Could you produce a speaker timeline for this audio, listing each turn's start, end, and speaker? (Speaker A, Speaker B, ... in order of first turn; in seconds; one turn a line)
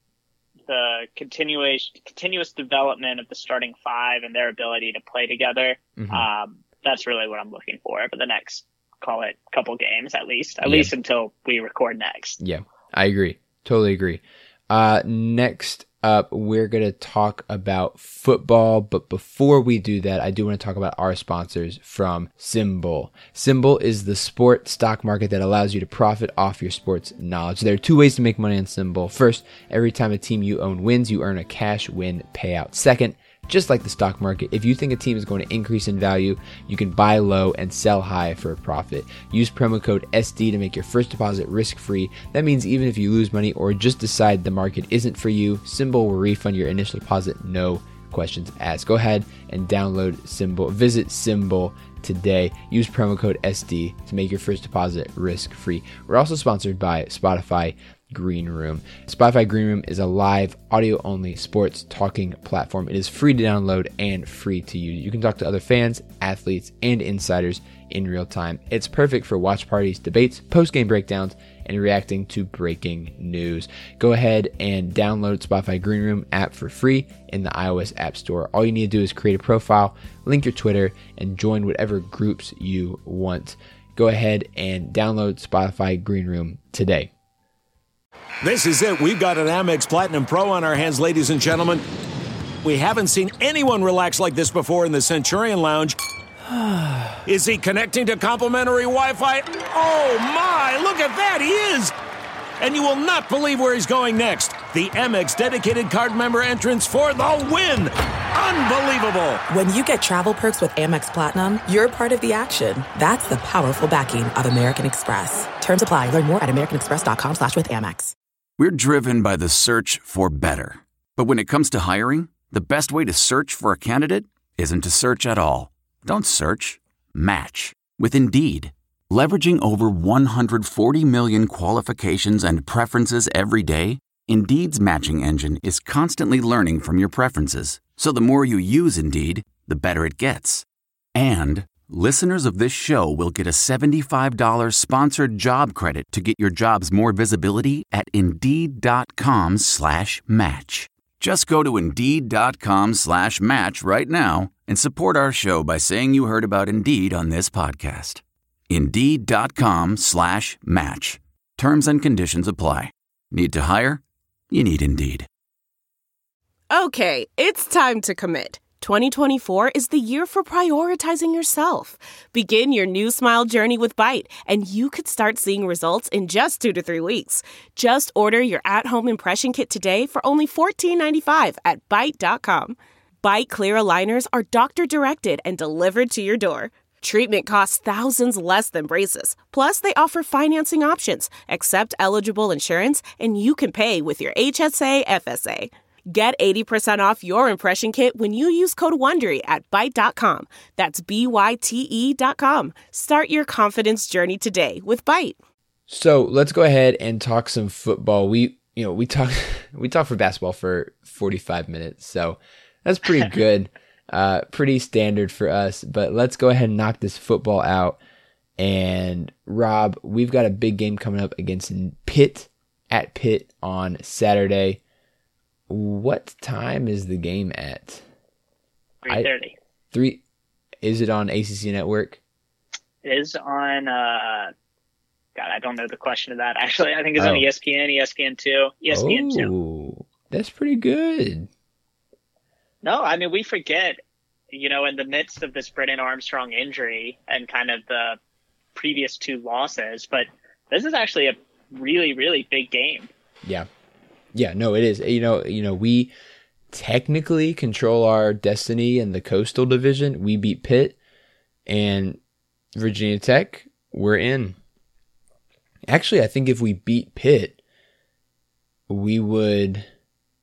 Speaker A: 0.7-12.4
Speaker B: 6.0-6.3
Speaker B: 10.6-10.9
Speaker B: 12.4-87.1
Speaker C: 88.4-91.8
Speaker C: 92.6-96.0
Speaker B: 96.5-97.2
Speaker C: 97.2-102.0
Speaker C: 102.6-109.4
Speaker D: 109.5-118.1
Speaker E: 118.6-165.3
Speaker F: 166.7-205.4
Speaker B: 205.9-218.0
Speaker B: 218.6-224.8
Speaker B: 225.7-228.1
Speaker A: 229.0-229.6
Speaker B: 229.9-230.2
Speaker B: 230.8-232.2
Speaker A: 233.0-234.5
Speaker A: 235.4-239.5
Speaker B: 237.2-237.5
Speaker B: 238.9-241.5
Speaker A: 242.8-244.0
Speaker A: 244.5-248.2
Speaker A: 248.8-253.1
Speaker B: 254.3-256.1
Speaker B: 256.7-261.0
Speaker B: 261.7-262.2
Speaker B: 262.8-264.6
Speaker B: 265.9-267.6
Speaker B: 268.9-269.9